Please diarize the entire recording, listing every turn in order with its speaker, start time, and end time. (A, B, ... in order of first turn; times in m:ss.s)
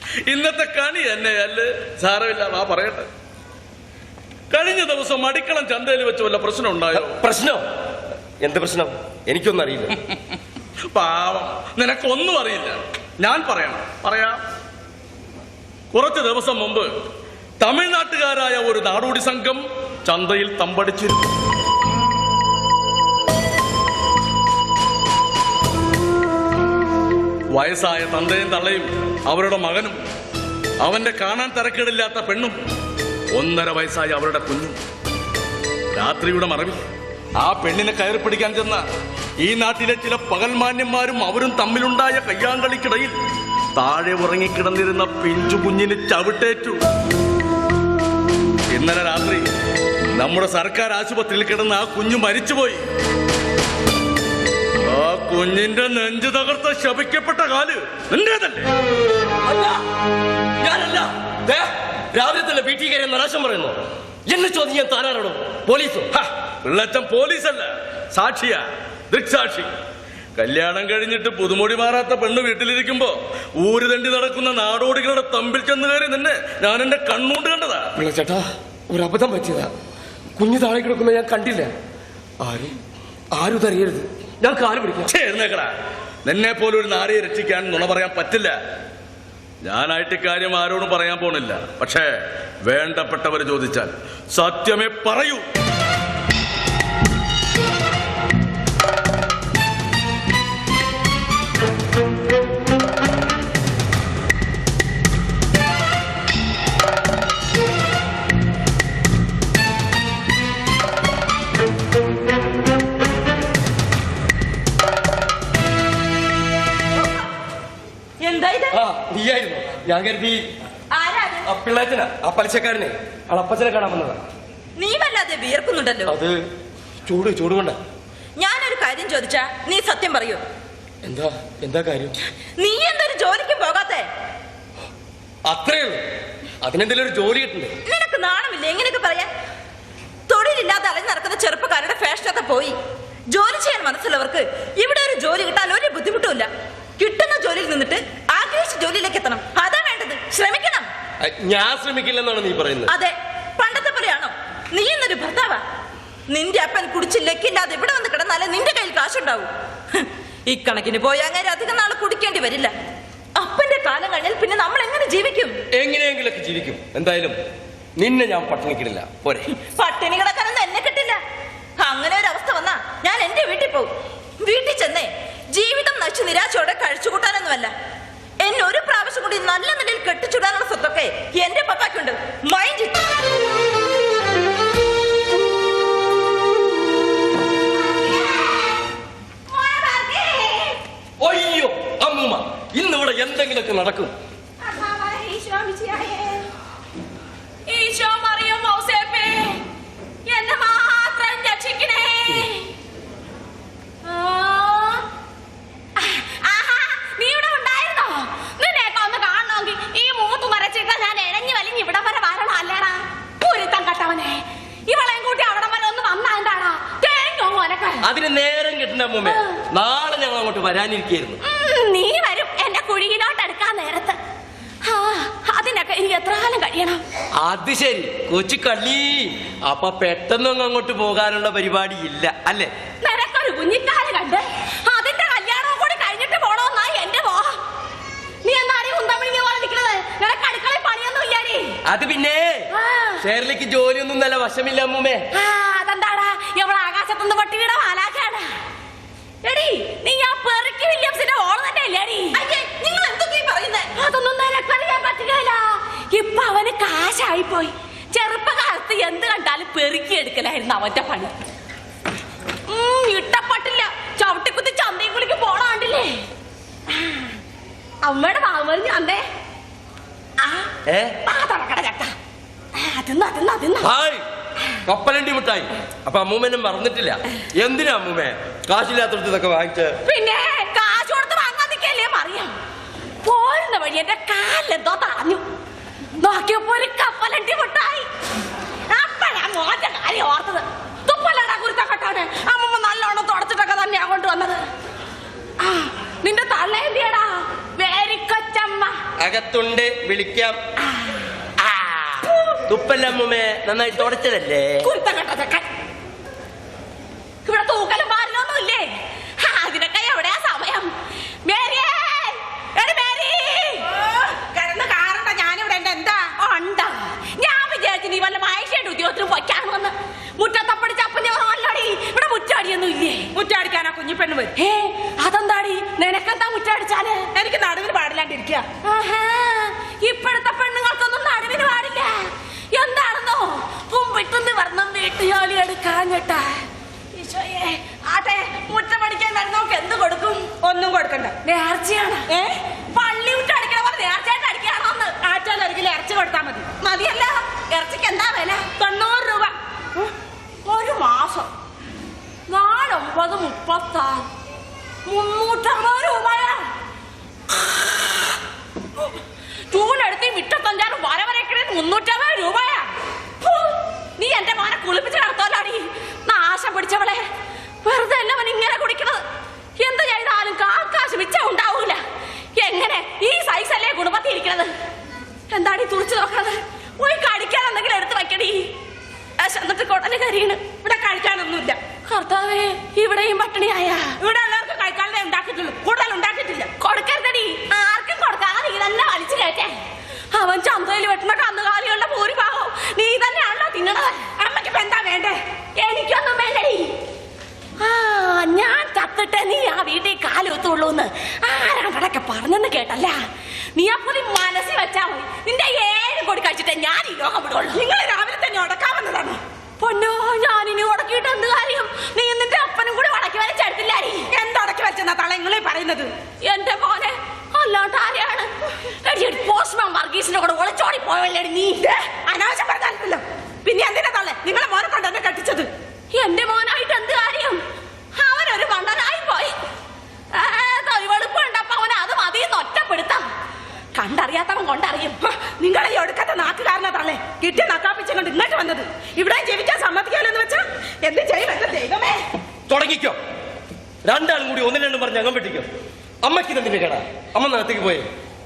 0:00.3-0:03.1 A
0:04.5-0:07.2 A
0:06.9-0:07.6 B
0:08.4-0:09.9 B
0:10.9-0:14.4 A
0:15.9-0:16.9 A
0:17.6-0:21.2 A
0:27.5-0:30.0 A
0:30.8-0:32.6 A
0:33.3-0:34.8 A
0:36.0-0:36.8 A
0:37.4-0:38.8 A
0:39.4-0:43.1 A
0:43.8-0:46.8 A
0:48.7-0:49.4 A
0:50.2-0:52.8 A
0:54.9-0:58.7 A
0:59.4-0:59.8 B
1:00.6-1:06.1 B
1:06.2-1:09.7 A
1:10.4-1:17.8 A
1:18.0-1:19.7 B
1:20.4-1:21.7 B
1:22.4-1:22.8 B
1:23.3-1:25.1 B
1:25.1-1:25.7 A
1:26.2-1:28.6 A
1:29.6-1:32.1 A
1:32.7-1:35.5 A
1:58.2-1:58.8 C
1:58.7-2:00.4 B
2:00.9-2:01.4 C
2:01.4-2:04.2 B
2:04.8-2:06.1 C
2:06.1-2:06.4 B
2:07.1-2:07.8 B
2:08.4-2:10.4 C
2:11.0-2:12.2 B
2:12.6-2:14.1 C
2:15.5-2:16.0 B
2:16.6-2:17.7 B
2:17.9-2:19.3 C
2:20.3-2:22.8 C
2:23.3-2:30.9 C
2:31.2-2:32.9 B
2:32.9-2:35.6 C
2:36.3-2:42.7 C
2:43.4-2:45.6 C
2:45.7-2:47.4 B
2:48.0-2:49.5 B
2:49.5-2:51.2 C
2:51.8-2:57.7 C
2:58.4-3:03.0 C
3:09.5-3:10.8 D
3:11.2-3:14.1 B
3:14.6-3:16.4 D
3:17.7-3:19.6 D
3:20.3-3:22.7 D
3:24.0-3:25.0 D
3:26.0-3:38.1 D
3:38.0-3:41.4 B
3:39.2-3:39.6 D
3:41.4-3:44.2 D
3:44.8-3:47.0 D
3:47.4-3:52.7 B
3:53.0-3:57.6 D
3:58.4-4:01.8 D
4:01.9-4:02.7 B
4:02.7-4:03.2 D
4:03.2-4:05.3 B
4:05.3-4:08.5 D
4:09.4-4:12.4 D
4:12.4-4:13.9 C
4:14.0-4:21.3 D
4:22.7-4:26.2 D
4:26.9-4:27.3 D
4:28.0-4:29.3 D
4:30.4-4:30.7 D
4:30.9-4:31.1 B
4:31.2-4:32.1 D
4:32.8-4:33.9 D
4:33.8-4:34.2 B
4:34.9-4:40.0 B
4:40.0-4:42.5 D
4:43.2-4:45.4 D
4:46.2-4:48.1 D
4:48.9-4:54.6 D
4:55.6-4:59.0 D
4:59.2-5:00.6 B
5:01.6-5:04.9 B
5:04.8-5:05.7 D
5:07.4-5:10.9 D
5:11.5-5:13.9 D
5:14.1-5:16.3 E
5:16.4-5:23.3 D
5:23.4-5:24.5 E
5:24.6-5:27.3 D
5:27.4-5:28.6 E
5:28.8-5:36.5 D
5:37.1-5:40.5 D
5:40.6-5:41.3 E
5:41.4-5:42.3 D
5:42.3-5:42.6 E
5:42.9-5:45.2 D
5:45.2-5:46.7 E
5:46.8-5:48.7 D
5:48.8-5:49.5 E
5:50.6-5:51.5 D
5:52.5-5:54.3 D
5:55.1-5:56.7 D
5:59.7-6:02.8 D
6:03.4-6:07.2 D
6:07.8-6:09.2 D
6:09.8-6:12.0 D
6:12.6-6:14.7 D
6:15.5-6:18.7 D
6:19.4-6:20.6 D
6:20.8-6:21.8 E
6:22.1-6:24.2 D
6:24.2-6:26.7 E
6:26.8-6:29.7 D
6:30.3-6:34.2 D
6:34.4-6:35.4 E
6:35.8-6:36.9 D
6:37.8-6:43.2 D
6:43.8-6:47.8 D
6:47.7-6:49.4 E
6:49.8-6:54.3 D
6:54.3-6:56.1 E
6:56.4-6:58.5 D
6:59.0-7:01.9 D
7:01.9-7:05.7 E
7:06.1-7:07.6 D
7:08.2-7:09.6 D
7:10.3-7:13.2 D
7:14.0-7:15.2 D
7:15.2-7:22.2 E
7:22.7-7:23.2 B
7:24.0-7:25.7 B
7:26.2-7:28.1 B